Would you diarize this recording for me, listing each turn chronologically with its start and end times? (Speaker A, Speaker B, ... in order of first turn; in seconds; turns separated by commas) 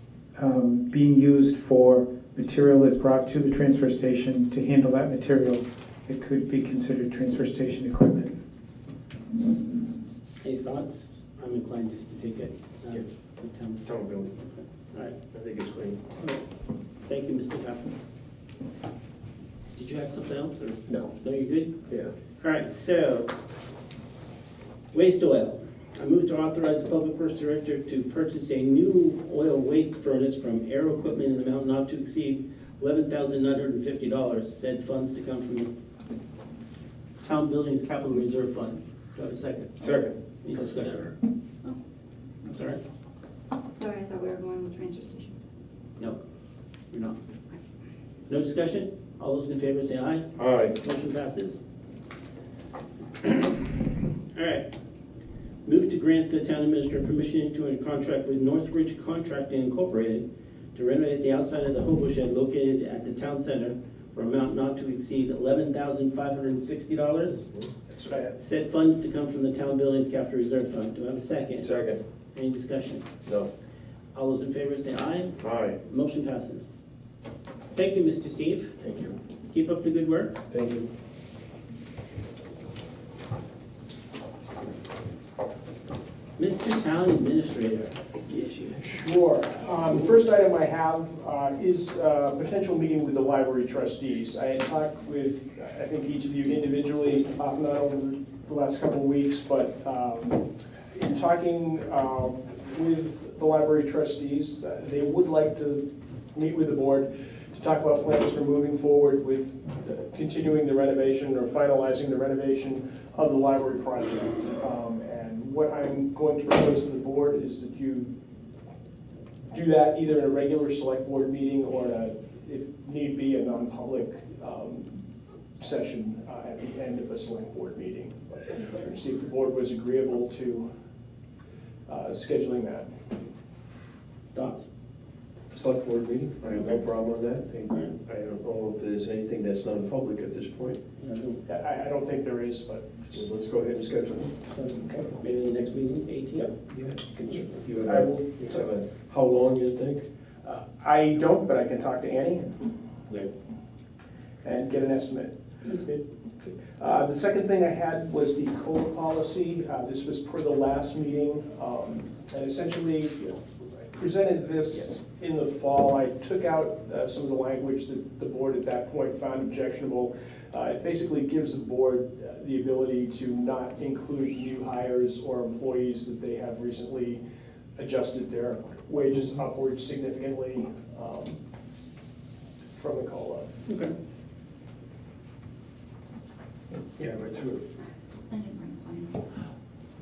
Speaker A: 0.3-8.3, Speaker B: 10.4-13.9, Speaker C: 13.8-14.4, Speaker C: 15.3-16.0, Speaker B: 16.2-16.4, Speaker B: 17.1-17.9, Speaker B: 19.8-21.8, Speaker C: 20.9-21.1, Speaker C: 21.9-22.1, Speaker B: 22.4-23.3, Speaker B: 24.9-35.7, Speaker B: 37.2-39.9, Speaker C: 39.8-41.1, Speaker B: 40.4-41.1, Speaker B: 42.5-42.8, Speaker D: 43.7-45.4, Speaker B: 46.9-47.2, Speaker B: 48.3-51.6, Speaker C: 50.4-50.8, Speaker B: 53.2-53.8, Speaker B: 54.4-54.7, Speaker B: 55.6-67.5, Speaker E: 67.9-68.4, Speaker B: 68.4-71.7, Speaker C: 71.6-72.0, Speaker B: 72.3-73.0, Speaker C: 73.2-73.5, Speaker B: 74.1-76.7, Speaker C: 75.4-75.8, Speaker B: 77.7-78.8, Speaker C: 78.8-79.2, Speaker B: 79.5-80.4, Speaker C: 80.5-80.9, Speaker B: 86.4-88.7, Speaker E: 88.8-118.1, Speaker E: 119.5-124.9, Speaker E: 125.6-130.7, Speaker E: 131.9-132.9, Speaker B: 134.3-134.7, Speaker C: 135.5-140.8, Speaker B: 136.5-136.8, Speaker B: 137.7-137.9, Speaker B: 141.0-141.4, Speaker E: 141.5-143.2, Speaker C: 143.1-144.4, Speaker B: 144.5-146.6, Speaker E: 144.8-145.1, Speaker C: 146.7-150.1, Speaker E: 147.1-148.6, Speaker E: 150.4-152.6, Speaker E: 154.4-155.3, Speaker B: 155.6-156.1, Speaker E: 156.8-177.2, Speaker E: 177.8-181.4, Speaker E: 182.8-183.5, Speaker B: 183.7-183.9, Speaker C: 186.9-187.6, Speaker D: 188.3-189.3